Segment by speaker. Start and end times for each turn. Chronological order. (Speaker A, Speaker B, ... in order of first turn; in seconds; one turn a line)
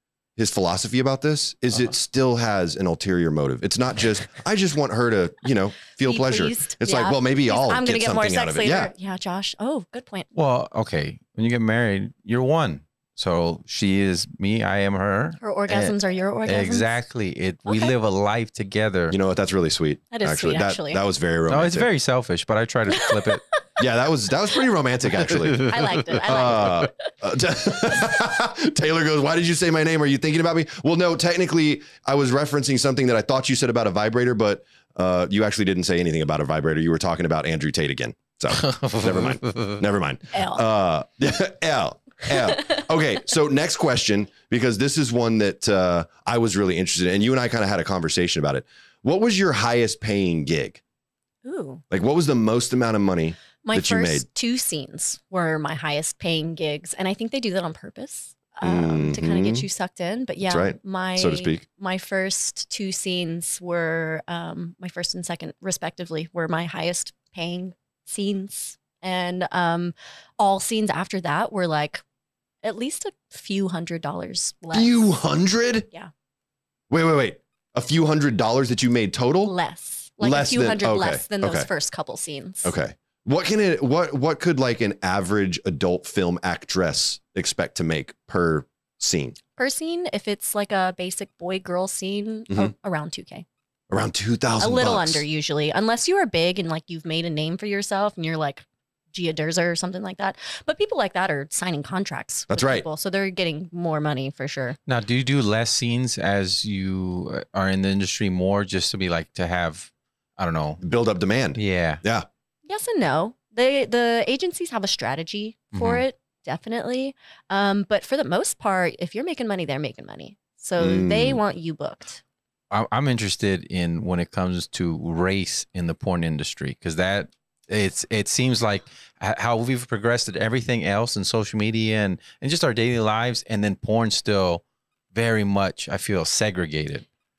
Speaker A: 0.4-8.9
Speaker B: 6.0-10.3
Speaker C: 10.3-15.9
Speaker B: 15.4-16.9
Speaker C: 16.4-19.2
Speaker B: 17.7-17.9
Speaker A: 19.1-21.9
Speaker B: 20.1-21.0
Speaker C: 21.5-23.4
Speaker B: 22.9-23.6
Speaker A: 23.8-50.8
Speaker C: 25.2-26.8
Speaker B: 25.6-27.0
Speaker C: 38.5-39.8
Speaker B: 40.3-40.6
Speaker B: 51.4-51.8
Speaker A: 51.9-54.2
Speaker B: 53.6-72.0
Speaker A: 58.6-59.6
Speaker A: 60.5-61.6
Speaker B: 72.6-75.0
Speaker A: 74.7-75.9
Speaker A: 76.9-79.5
Speaker B: 79.4-82.7
Speaker A: 80.2-81.7
Speaker A: 82.6-89.3
Speaker B: 89.6-93.5
Speaker A: 93.9-95.2
Speaker B: 94.6-104.8
Speaker A: 102.5-102.8
Speaker C: 104.9-110.8
Speaker A: 110.8-112.3
Speaker C: 111.5-112.0
Speaker B: 112.7-122.2
Speaker C: 115.7-116.0
Speaker A: 120.8-121.4
Speaker C: 122.7-134.6
Speaker C: 135.1-137.0